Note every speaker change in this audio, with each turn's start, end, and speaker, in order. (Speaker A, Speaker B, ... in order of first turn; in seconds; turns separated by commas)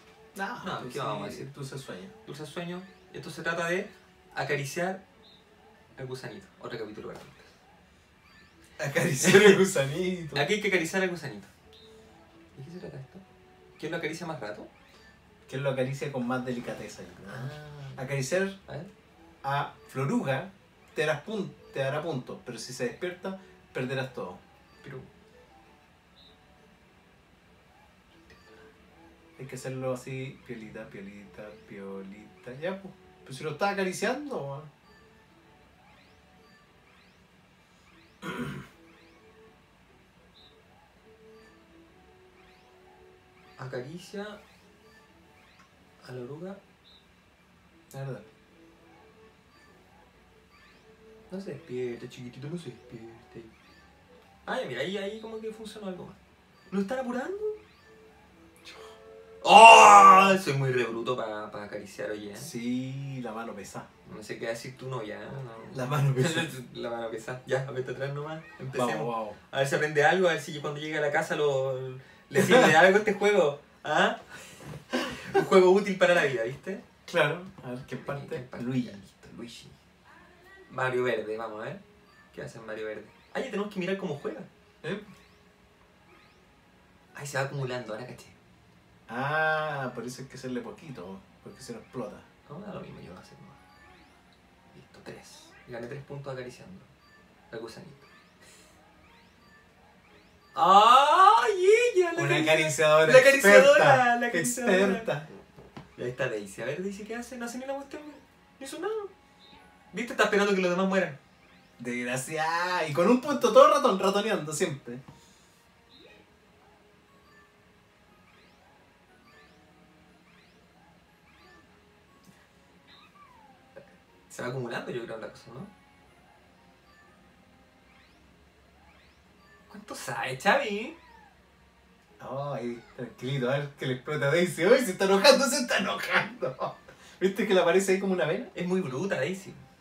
Speaker A: 0.3-2.1, Speaker B: 0.6-1.5, Speaker B: 2.2-5.0, Speaker B: 6.0-7.4, Speaker A: 8.8-10.5, Speaker B: 9.2-9.6, Speaker B: 10.3-11.5, Speaker B: 12.6-13.2, Speaker B: 13.8-14.7, Speaker A: 15.5-18.6, Speaker B: 17.3-18.0, Speaker A: 19.4-24.4, Speaker B: 24.8-25.1, Speaker A: 29.4-34.7, Speaker B: 43.6-44.4, Speaker B: 46.0-46.6, Speaker A: 47.9-48.2, Speaker B: 51.3-53.5, Speaker B: 54.5-56.2, Speaker B: 56.7-57.6, Speaker B: 59.4-62.5, Speaker A: 62.4-63.9, Speaker B: 64.0-74.3, Speaker A: 65.7-66.5, Speaker A: 68.7-69.4, Speaker A: 72.3-72.7, Speaker B: 74.9-76.8, Speaker A: 77.1-79.0, Speaker B: 78.0-79.7, Speaker B: 80.7-81.8, Speaker B: 82.3-84.5, Speaker B: 87.1-88.4, Speaker A: 89.1-92.2, Speaker B: 92.5-93.5, Speaker B: 94.7-96.9, Speaker B: 97.5-98.1, Speaker B: 100.5-105.1, Speaker A: 102.2-105.3, Speaker B: 106.0-109.1, Speaker B: 109.9-111.2, Speaker A: 111.8-115.0, Speaker B: 124.3-125.7, Speaker B: 129.7-131.0, Speaker A: 132.2-138.5, Speaker B: 138.5-139.6